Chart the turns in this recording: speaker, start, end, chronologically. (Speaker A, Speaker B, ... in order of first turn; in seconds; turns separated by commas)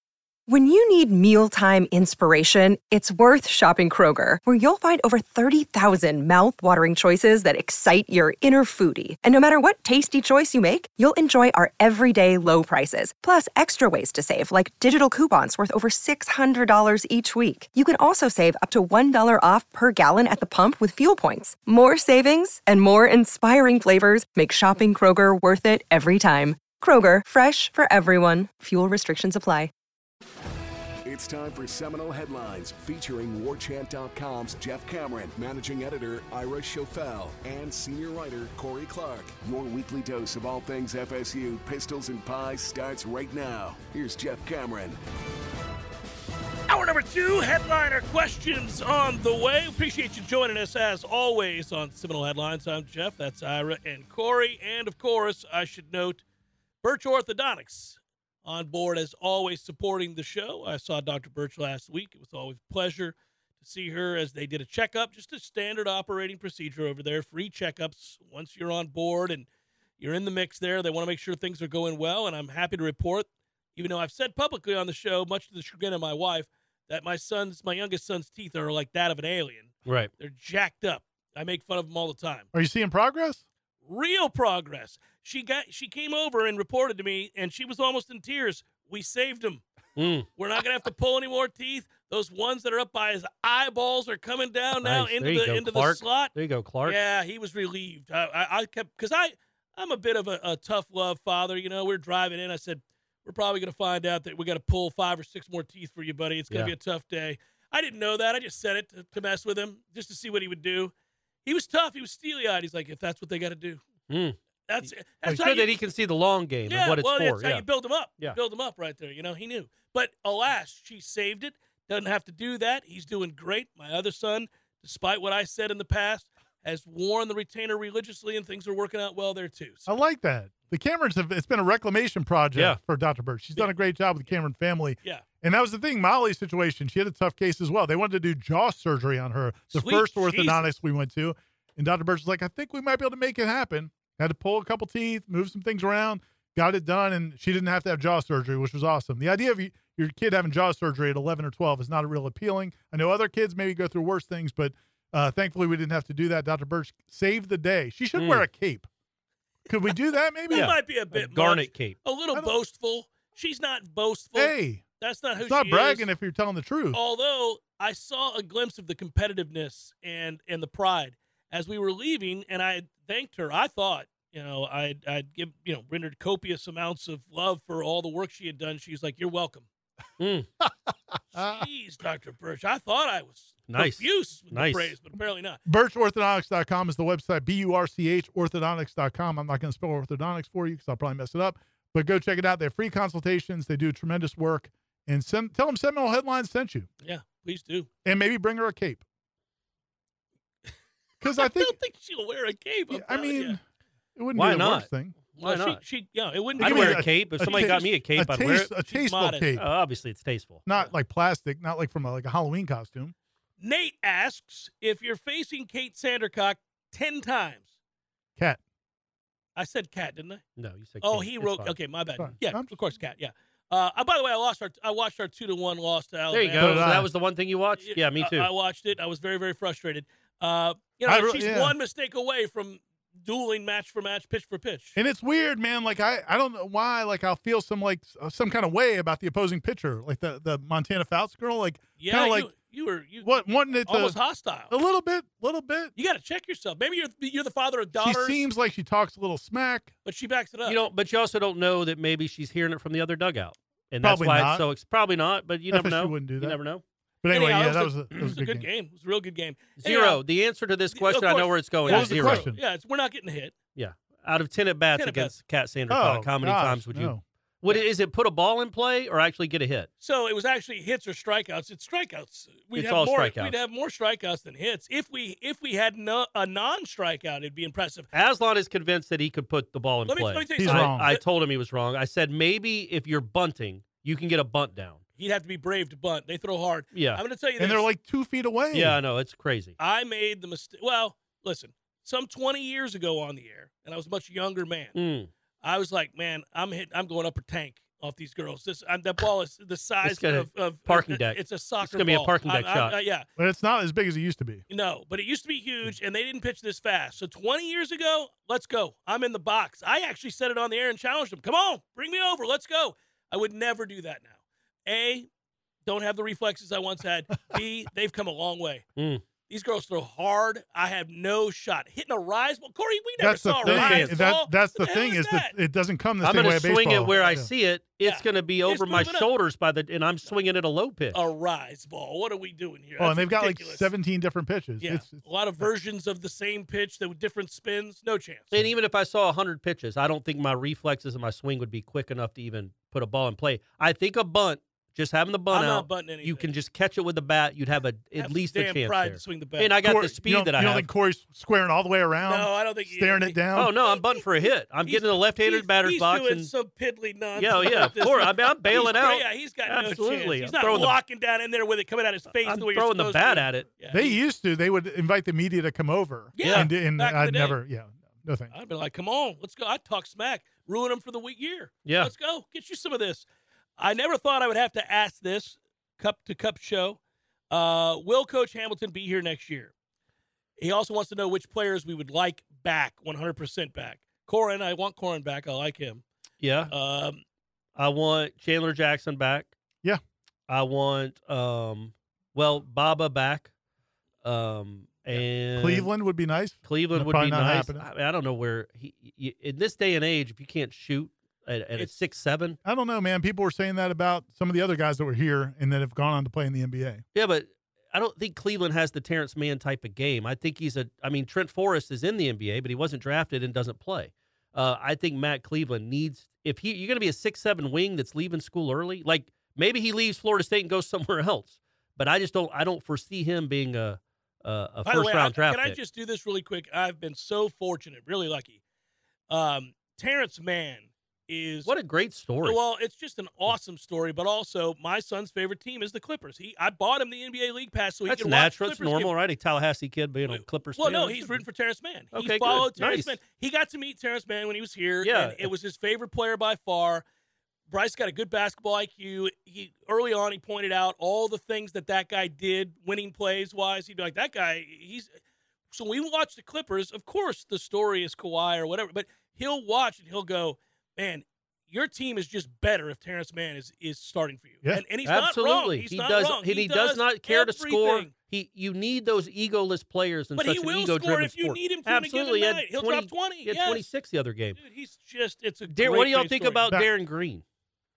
Speaker A: 0.5-29.7, Speaker B: 31.1-45.0, Speaker C: 46.7-56.2, Speaker C: 56.8-69.5, Speaker C: 70.0-82.5, Speaker D: 82.5-83.4, Speaker C: 83.8-89.6, Speaker E: 90.0-90.3, Speaker C: 90.4-96.3, Speaker E: 94.8-97.0, Speaker C: 96.8-110.9, Speaker C: 111.4-113.8, Speaker E: 114.1-117.6, Speaker C: 114.7-115.8, Speaker C: 116.6-129.9, Speaker D: 129.9-158.9, Speaker C: 139.7-140.7, Speaker E: 158.2-158.4, Speaker D: 159.7-160.7, Speaker C: 160.5-166.1, Speaker E: 160.5-162.0, Speaker D: 164.4-164.8, Speaker D: 165.4-167.0, Speaker C: 166.9-179.7, Speaker E: 180.2-180.5, Speaker C: 181.3-185.6, Speaker D: 181.4-181.6, Speaker E: 183.7-184.9, Speaker D: 185.7-196.9, Speaker C: 197.0-197.9, Speaker D: 198.1-199.0, Speaker D: 201.2-201.8, Speaker C: 201.4-203.6, Speaker D: 202.9-203.6, Speaker D: 204.2-205.2, Speaker E: 204.3-205.8, Speaker C: 205.4-208.0, Speaker E: 206.6-208.8, Speaker D: 206.6-209.6, Speaker C: 208.8-209.6, Speaker E: 209.6-210.9, Speaker D: 210.7-213.1, Speaker C: 213.6-217.6, Speaker C: 219.6-220.4, Speaker E: 220.6-221.8, Speaker C: 221.0-227.1, Speaker D: 222.2-222.7, Speaker E: 226.3-228.5, Speaker D: 226.6-227.1, Speaker C: 227.8-235.0, Speaker D: 231.1-231.8, Speaker D: 235.0-242.5, Speaker C: 242.0-244.7, Speaker D: 243.2-244.2, Speaker D: 244.7-245.9, Speaker C: 246.0-248.4, Speaker D: 248.0-249.9, Speaker C: 250.1-250.8, Speaker E: 250.7-256.8, Speaker D: 254.0-254.7, Speaker D: 255.7-256.6, Speaker D: 257.2-258.7, Speaker C: 257.3-260.2, Speaker E: 258.1-258.4, Speaker E: 259.8-262.5, Speaker C: 260.9-263.6, Speaker D: 261.9-262.6, Speaker E: 263.8-269.9, Speaker C: 265.0-265.3, Speaker D: 265.9-267.2, Speaker C: 270.0-278.1, Speaker E: 272.7-273.6, Speaker E: 278.1-285.0, Speaker C: 280.1-281.2, Speaker D: 280.6-281.1, Speaker C: 285.2-287.9, Speaker E: 286.9-287.2, Speaker D: 287.6-289.0, Speaker E: 288.7-289.8, Speaker C: 289.8-295.0, Speaker E: 295.0-295.3, Speaker C: 295.6-303.3, Speaker E: 300.0-303.0, Speaker D: 303.4-304.6, Speaker C: 304.7-314.4, Speaker C: 314.9-315.3, Speaker C: 315.9-318.9, Speaker E: 319.0-319.2, Speaker C: 319.5-325.5, Speaker D: 323.2-327.5, Speaker E: 323.6-324.2, Speaker E: 326.2-331.2, Speaker C: 327.1-327.4, Speaker C: 328.0-329.3, Speaker C: 331.1-333.9, Speaker D: 333.0-335.6, Speaker C: 334.8-338.7, Speaker E: 338.5-350.9, Speaker C: 345.5-346.5, Speaker C: 348.2-350.0, Speaker D: 349.8-353.7, Speaker C: 352.2-364.2, Speaker E: 353.5-356.5, Speaker E: 357.4-361.0, Speaker E: 362.4-363.7, Speaker D: 363.9-368.5, Speaker C: 366.4-367.6, Speaker E: 366.4-366.7, Speaker C: 368.5-373.2, Speaker E: 371.9-372.1, Speaker C: 373.8-377.0, Speaker C: 377.5-379.7, Speaker C: 380.6-386.0, Speaker E: 386.4-386.7, Speaker C: 386.7-387.2, Speaker E: 387.8-389.5, Speaker E: 390.5-393.5, Speaker E: 394.2-395.9, Speaker D: 395.6-397.9, Speaker E: 396.6-402.6, Speaker D: 402.6-407.0, Speaker E: 407.1-425.8, Speaker C: 424.9-428.6, Speaker C: 429.3-431.7, Speaker E: 431.6-432.6, Speaker C: 432.4-439.1, Speaker E: 438.1-441.4, Speaker C: 440.3-447.0, Speaker E: 442.1-443.2, Speaker E: 445.0-445.5, Speaker C: 447.7-455.1, Speaker C: 455.7-468.1, Speaker E: 465.0-474.6, Speaker C: 470.4-473.9, Speaker C: 474.6-476.6, Speaker E: 475.7-477.4